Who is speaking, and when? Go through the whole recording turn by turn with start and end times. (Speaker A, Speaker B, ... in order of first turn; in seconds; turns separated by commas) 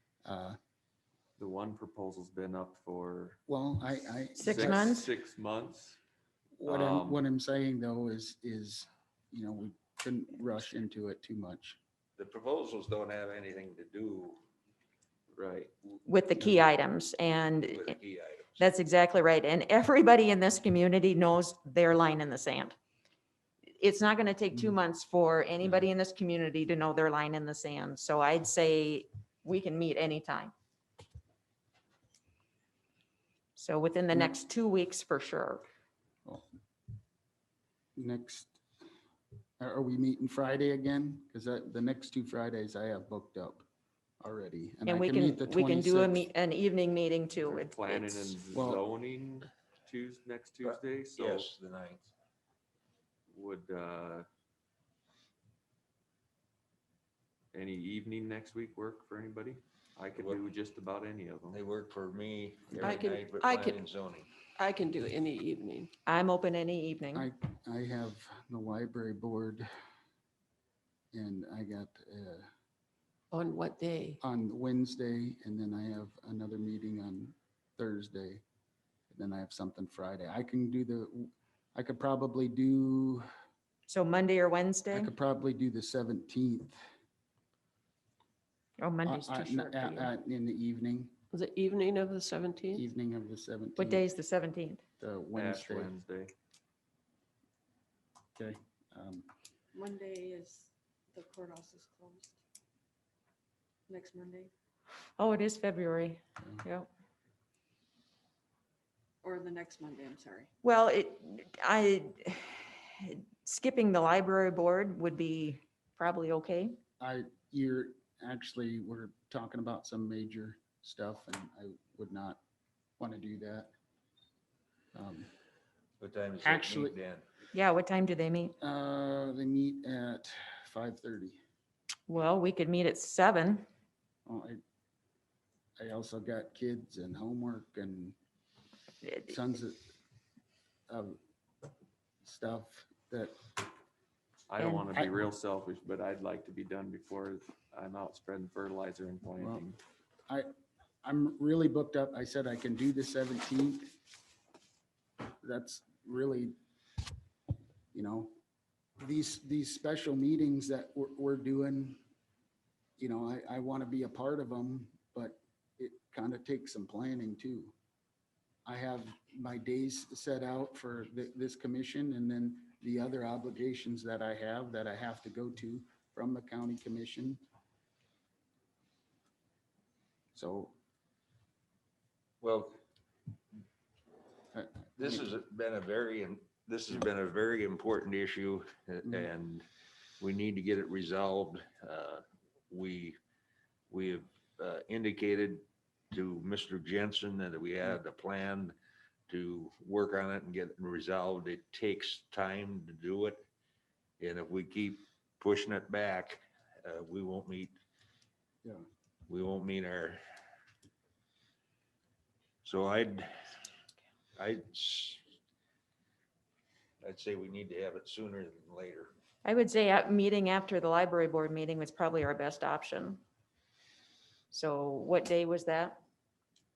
Speaker A: 0.2-0.6, Speaker B: 1.4-3.4, Speaker A: 3.5-5.0, Speaker C: 4.4-5.1, Speaker B: 4.4-6.0, Speaker A: 6.6-11.8, Speaker B: 6.7-7.2, Speaker D: 12.2-14.4, Speaker B: 15.3-15.7, Speaker C: 16.1-17.9, Speaker D: 17.7-18.7, Speaker C: 18.6-22.8, Speaker C: 23.8-30.5, Speaker C: 33.6-35.7, Speaker A: 38.0-38.6, Speaker A: 39.6-43.7, Speaker A: 44.2-46.2, Speaker C: 44.9-48.4, Speaker B: 47.4-51.5, Speaker A: 48.5-48.8, Speaker D: 50.6-52.1, Speaker B: 53.3-54.3, Speaker B: 57.5-61.6, Speaker D: 60.1-60.4, Speaker D: 61.5-64.3, Speaker A: 62.7-63.0, Speaker E: 62.8-63.8, Speaker E: 64.6-65.9, Speaker C: 66.1-67.3, Speaker A: 67.1-69.7, Speaker A: 71.1-72.5, Speaker E: 73.3-74.2, Speaker A: 74.2-78.4, Speaker A: 79.1-83.3, Speaker C: 83.9-85.1, Speaker A: 84.9-86.8, Speaker C: 88.8-90.1, Speaker A: 89.0-91.1, Speaker E: 91.3-92.8, Speaker A: 92.7-94.0, Speaker C: 93.8-94.8, Speaker A: 95.0-96.0, Speaker B: 95.3-96.3, Speaker A: 98.4-99.3, Speaker F: 99.8-102.3, Speaker F: 103.9-104.5, Speaker C: 105.2-106.9, Speaker F: 109.3-110.5, Speaker C: 110.6-116.8, Speaker A: 117.0-122.4, Speaker A: 123.0-123.7, Speaker A: 124.9-125.3, Speaker D: 126.0-127.2, Speaker A: 126.4-127.0, Speaker C: 127.5-128.6, Speaker A: 128.6-131.4, Speaker C: 132.1-133.7, Speaker A: 134.3-134.6, Speaker A: 135.8-138.2, Speaker A: 139.2-139.9, Speaker A: 140.9-141.2, Speaker A: 142.2-143.4, Speaker B: 144.5-149.8, Speaker A: 149.4-149.7, Speaker A: 151.0-153.9, Speaker A: 155.4-156.6, Speaker A: 157.9-158.3, Speaker A: 159.0-162.0, Speaker A: 163.0-167.8, Speaker A: 168.7-177.4, Speaker A: 180.3-180.7, Speaker D: 182.4-182.8, Speaker A: 184.5-185.2, Speaker D: 185.0-189.7, Speaker D: 190.2-193.2, Speaker D: 193.9-198.8, Speaker D: 199.3-203.4, Speaker D: 204.2-207.8, Speaker D: 209.3-210.2, Speaker D: 212.6-213.3, Speaker D: 214.4-215.2, Speaker D: 217.0-219.1, Speaker C: 219.4-223.2, Speaker C: 224.5-226.0